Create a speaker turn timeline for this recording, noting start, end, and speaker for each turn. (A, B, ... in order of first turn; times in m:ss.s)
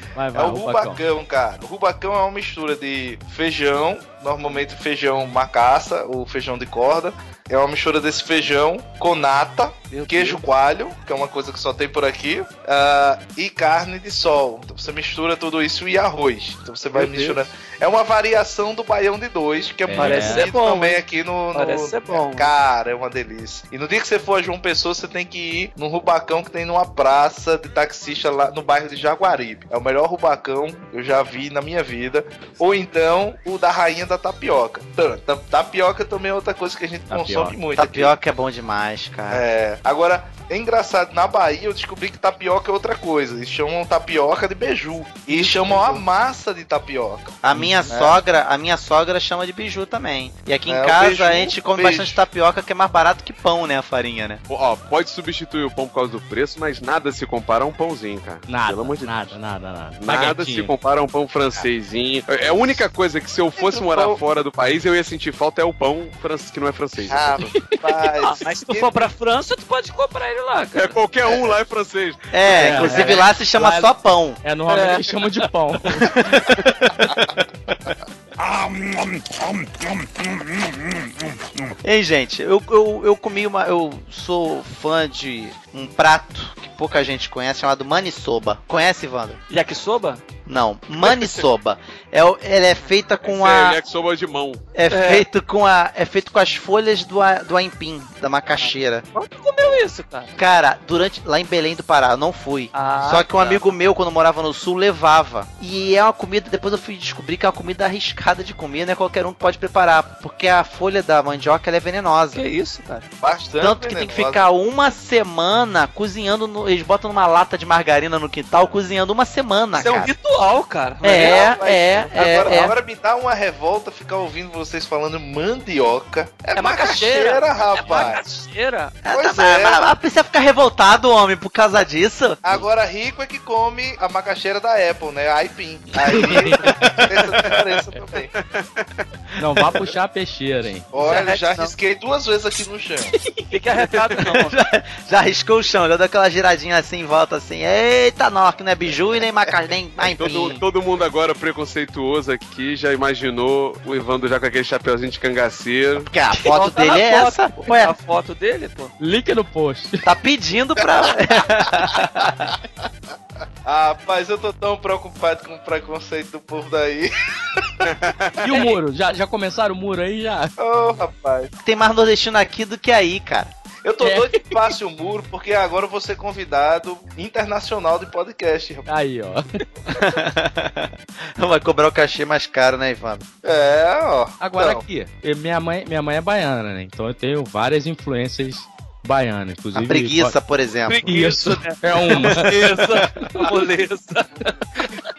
0:00.2-0:01.0 A
0:00.4-0:38.2 B
0:09.9-0:10.4 C
0:16.9-0:17.4 C
0:19.9-0:20.5 A
0:20.0-0:21.0 C
0:21.5-0:22.5 C
0:37.1-0:37.6 A
0:37.8-0:39.4 D
0:39.3-0:48.2 B
0:47.4-0:54.4 D
0:47.5-0:47.9 A
0:50.7-0:52.2 B
0:54.5-0:59.3 E
0:58.5-1:00.7 A
1:00.0-1:07.4 E
1:02.4-1:02.8 B
1:03.8-1:04.2 B
1:07.1-1:09.0 B
1:08.2-1:11.0 C
1:10.8-1:13.0 E
1:11.2-1:11.5 D
1:12.3-1:14.4 D
1:12.6-1:16.1 A
1:12.7-1:13.2 C
1:14.7-1:15.1 C
1:16.0-1:17.7 D
1:18.4-1:20.1 E
1:21.1-1:21.7 E
1:21.8-1:29.4 D
1:29.5-1:30.2 C
1:30.5-1:33.8 D
1:33.2-1:34.6 E
1:34.8-1:39.0 D
1:34.9-1:35.2 C
1:38.6-1:40.3 C
1:40.4-1:52.4 D
1:42.7-1:43.6 C
1:52.3-1:53.0 C
1:53.2-1:54.5 B
1:53.6-2:00.1 D
1:59.8-2:02.7 C
2:01.0-2:02.7 D
2:01.0-2:08.2 B
2:06.5-2:08.9 C
2:09.0-2:12.4 D
2:09.1-2:09.8 B
2:12.4-2:18.3 B
2:16.1-2:17.0 D
2:18.4-2:19.0 E
2:19.4-2:20.9 A
2:20.9-2:23.1 B
2:21.0-2:21.7 C
2:23.5-2:24.5 C
2:24.2-2:30.6 D
2:30.1-2:36.1 E
2:36.0-2:37.9 D
2:36.4-2:38.9 C
2:39.0-2:40.0 A
2:40.0-2:42.5 D
2:43.6-2:47.9 B
2:47.8-2:48.4 E
2:48.4-2:50.5 A
2:50.6-2:51.5 B
2:51.6-2:53.5 D
2:53.8-2:58.9 B
2:54.0-2:54.5 A
2:58.9-2:59.4 A
2:59.9-3:03.2 D
3:03.4-3:04.8 B
3:04.4-3:10.4 A
3:09.8-3:11.1 D
3:10.9-3:14.9 C
3:11.0-3:12.5 A